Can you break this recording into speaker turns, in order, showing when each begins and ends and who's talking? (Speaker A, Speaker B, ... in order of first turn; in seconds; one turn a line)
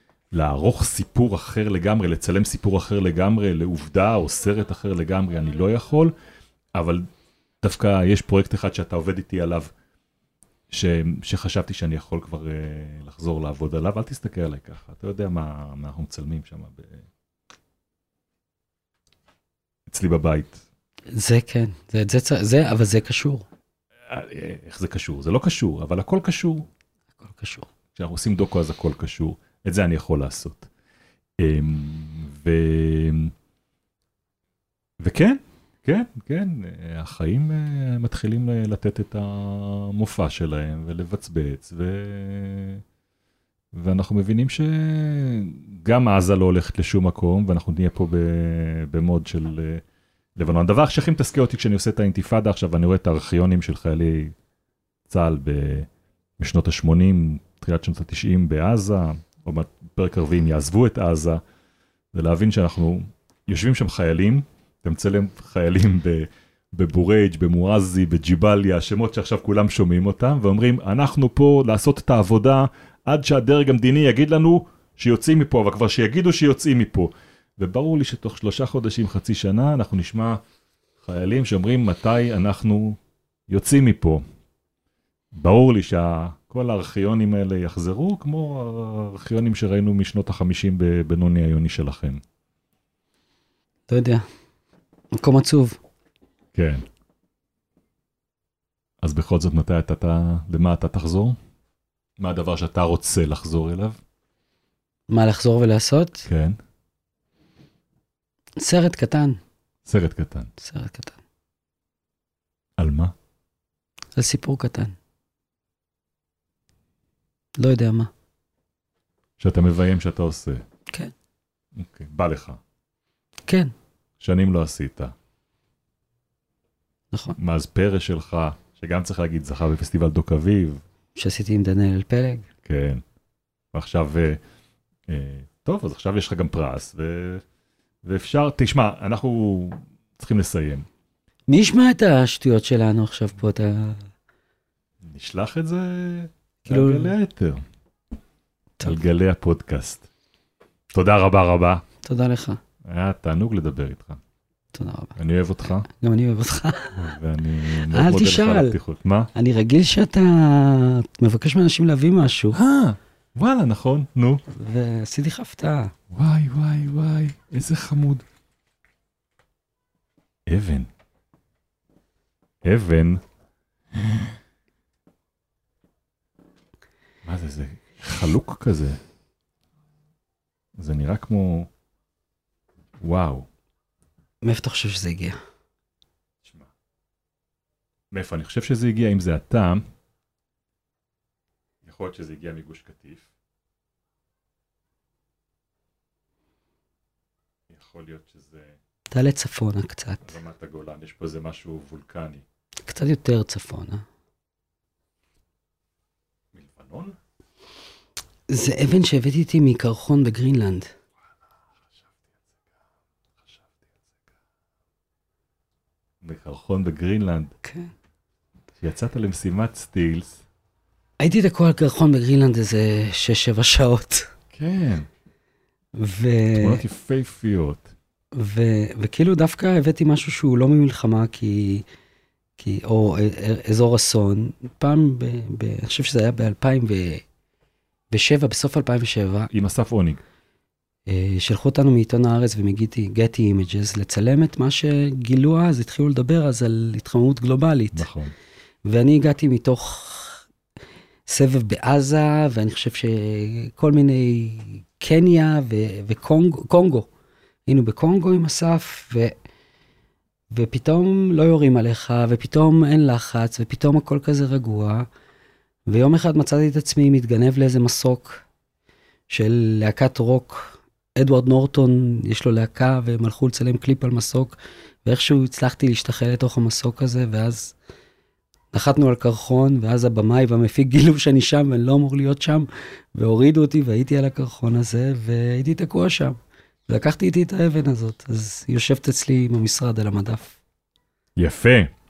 Speaker A: 0.3-6.1
Speaker A: 6.7-7.1
Speaker A: 7.6-9.7
Speaker A: 10.7-17.1
Speaker A: 19.9-20.6
Speaker B: 21.1-23.4
Speaker A: 24.1-26.7
Speaker B: 27.2-27.7
Speaker A: 27.9-30.7
Speaker A: 31.4-33.3
Speaker A: 35.0-42.8
Speaker A: 43.7-49.8
Speaker A: 50.4-54.3
Speaker A: 55.1-61.4
Speaker A: 62.1-80.4
Speaker A: 81.0-84.2
Speaker A: 85.3-92.2
Speaker B: 93.9-94.2
Speaker B: 95.1-95.8
Speaker A: 96.5-96.8
Speaker A: 99.0-101.4
Speaker A: 102.2-104.0
Speaker B: 105.1-106.3
Speaker A: 106.3-106.6
Speaker B: 108.6-109.4
Speaker A: 109.9-110.5
Speaker B: 110.6-111.2
Speaker A: 112.8-113.1
Speaker B: 114.1-115.0
Speaker B: 117.6-118.1
Speaker A: 119.4-120.6
Speaker A: 121.7-122.6
Speaker B: 123.5-123.7
Speaker A: 124.2-125.1
Speaker B: 127.1-127.4
Speaker A: 127.4-130.8
Speaker B: 131.1-132.5
Speaker A: 132.6-133.0
Speaker A: 133.7-134.4
Speaker A: 135.1-137.4
Speaker A: 138.0-140.9
Speaker B: 141.5-144.1
Speaker A: 145.0-147.6
Speaker B: 146.6-147.1
Speaker A: 148.8-150.1
Speaker A: 150.9-151.8
Speaker B: 152.0-152.6
Speaker A: 152.8-154.2
Speaker B: 154.7-155.2
Speaker A: 155.2-155.9
Speaker B: 155.9-157.1
Speaker A: 156.9-159.3
Speaker B: 157.9-158.8
Speaker B: 159.3-162.6
Speaker A: 162.5-164.4
Speaker B: 164.5-165.9
Speaker A: 166.1-168.2
Speaker A: 170.5-170.9
Speaker A: 172.6-173.2
Speaker A: 173.9-174.3
Speaker A: 177.2-179.0
Speaker A: 180.8-181.7
Speaker A: 183.0-183.5
Speaker B: 184.4-185.4
Speaker A: 186.4-186.7
Speaker A: 188.1-189.8
Speaker A: 191.8-193.3
Speaker A: 197.7-198.8
Speaker B: 199.1-200.3
Speaker A: 200.3-202.4
Speaker B: 202.9-204.0
Speaker A: 206.5-207.2
Speaker B: 208.5-210.9
Speaker A: 211.9-212.4
Speaker A: 213.4-213.8
Speaker A: 216.2-217.5
Speaker B: 217.6-217.9
Speaker A: 218.8-220.4
Speaker B: 221.2-224.3
Speaker A: 224.5-225.1
Speaker B: 225.9-226.8
Speaker A: 226.6-227.9
Speaker B: 228.4-231.8
Speaker B: 232.6-237.2
Speaker B: 238.1-239.5
Speaker A: 239.5-240.2
Speaker B: 241.1-248.1
Speaker A: 247.9-248.3
Speaker B: 248.8-250.4
Speaker B: 251.3-257.1
Speaker B: 257.7-259.3
Speaker B: 260.5-265.1
Speaker B: 265.9-268.4
Speaker B: 269.3-277.7
Speaker B: 278.7-286.4
Speaker B: 286.9-290.6
Speaker A: 291.4-291.9